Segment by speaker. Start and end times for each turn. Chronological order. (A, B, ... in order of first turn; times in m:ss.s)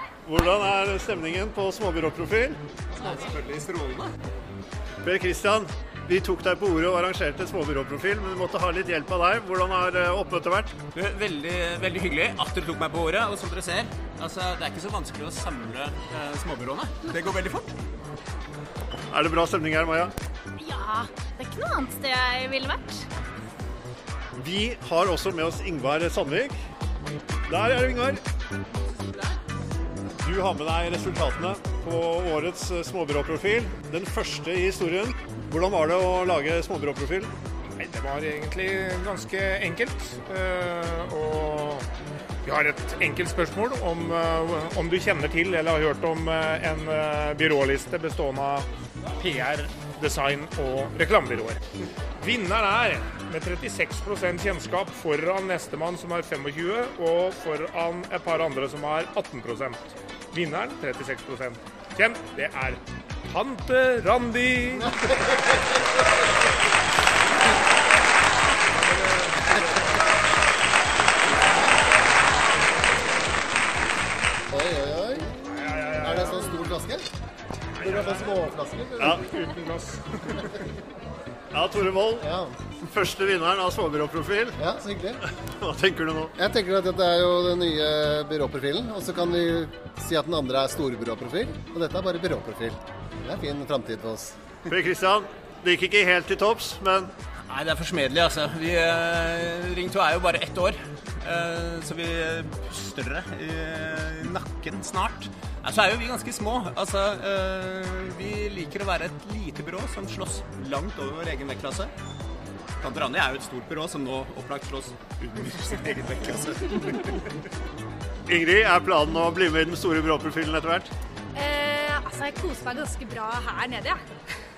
0:00.2-0:02.6 A
0:03.0-0:04.1 B
0:05.0-0:10.7 A
0:10.9-0:17.7 B
0:19.1-0:20.1 A
0:20.6-0:23.0 C
0:24.4-0:26.6 A
0:27.5-0:28.2 A
0:30.2-0:37.3 A
0:37.8-0:41.9 D
0:42.4-0:51.6 D
0:52.2-1:05.3 D
1:09.0-1:09.6 D
1:14.5-1:15.4 E
1:15.5-1:16.4 D
1:16.0-1:17.1 E
1:17.7-1:18.4 D
1:17.8-1:19.3 E
1:19.0-1:20.6 D
1:19.0-1:19.2 A
1:21.5-1:24.6 A
1:22.2-1:22.6 E
1:24.6-1:25.2 E
1:25.4-1:26.3 A
1:26.4-1:34.3 E
1:34.7-1:37.1 A
1:37.5-1:51.9 B
1:52.8-1:57.2 B
1:58.3-2:00.9 A
2:01.3-2:04.0 C